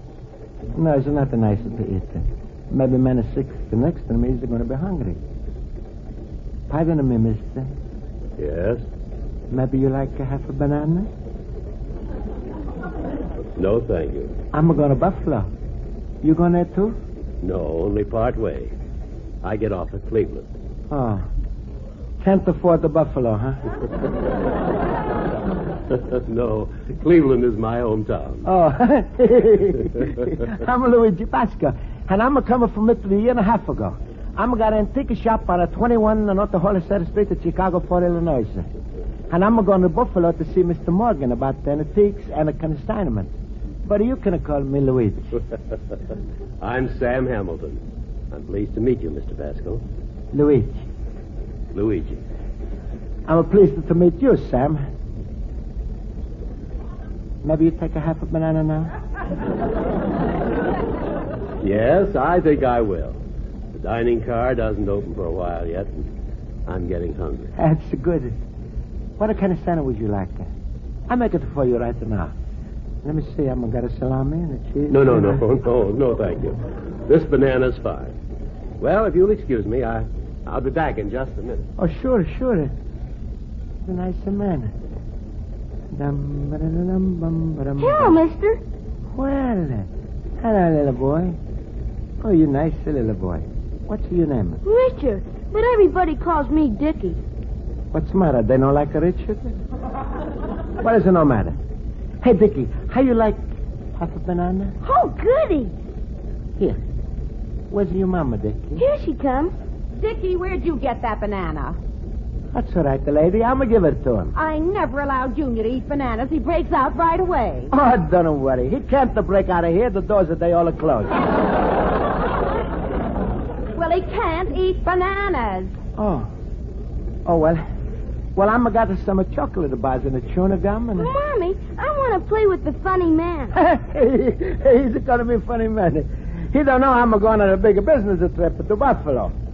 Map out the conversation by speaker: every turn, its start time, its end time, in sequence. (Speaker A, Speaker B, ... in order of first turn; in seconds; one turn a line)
Speaker A: 0.8-5.2
Speaker A: 6.7-7.7
Speaker B: 8.4-8.9
Speaker A: 9.5-11.1
Speaker B: 13.6-14.4
Speaker A: 14.5-15.5
Speaker A: 16.2-17.0
Speaker B: 17.4-18.8
Speaker B: 19.4-20.5
Speaker A: 20.9-21.3
Speaker A: 22.2-23.6
Speaker B: 25.9-28.4
Speaker A: 28.4-38.7
Speaker A: 39.3-45.3
Speaker B: 46.6-49.8
Speaker A: 50.3-50.8
Speaker B: 51.7-52.2
Speaker A: 53.3-54.8
Speaker A: 57.4-58.9
Speaker B: 61.6-63.2
Speaker B: 63.7-66.1
Speaker B: 66.7-67.5
Speaker A: 67.6-68.3
Speaker A: 69.2-70.5
Speaker A: 71.1-72.3
Speaker A: 73.0-75.5
Speaker B: 74.9-78.2
Speaker B: 78.8-81.7
Speaker A: 81.8-82.7
Speaker A: 83.8-84.7
Speaker A: 85.9-88.2
Speaker C: 87.8-88.6
Speaker A: 89.2-89.9
Speaker A: 90.4-91.4
Speaker A: 92.2-94.6
Speaker C: 94.6-97.2
Speaker A: 97.9-99.5
Speaker A: 100.8-101.5
Speaker A: 102.2-103.5
Speaker A: 104.0-104.8
Speaker C: 104.8-105.8
Speaker A: 107.7-108.8
Speaker C: 108.8-109.5
Speaker D: 109.9-111.8
Speaker A: 112.5-114.3
Speaker D: 114.3-117.7
Speaker A: 117.7-121.2
Speaker D: 123.8-125.8
Speaker A: 126.0-126.3
Speaker A: 127.3-127.6
Speaker A: 128.3-131.1
Speaker C: 131.0-133.5
Speaker A: 133.5-139.3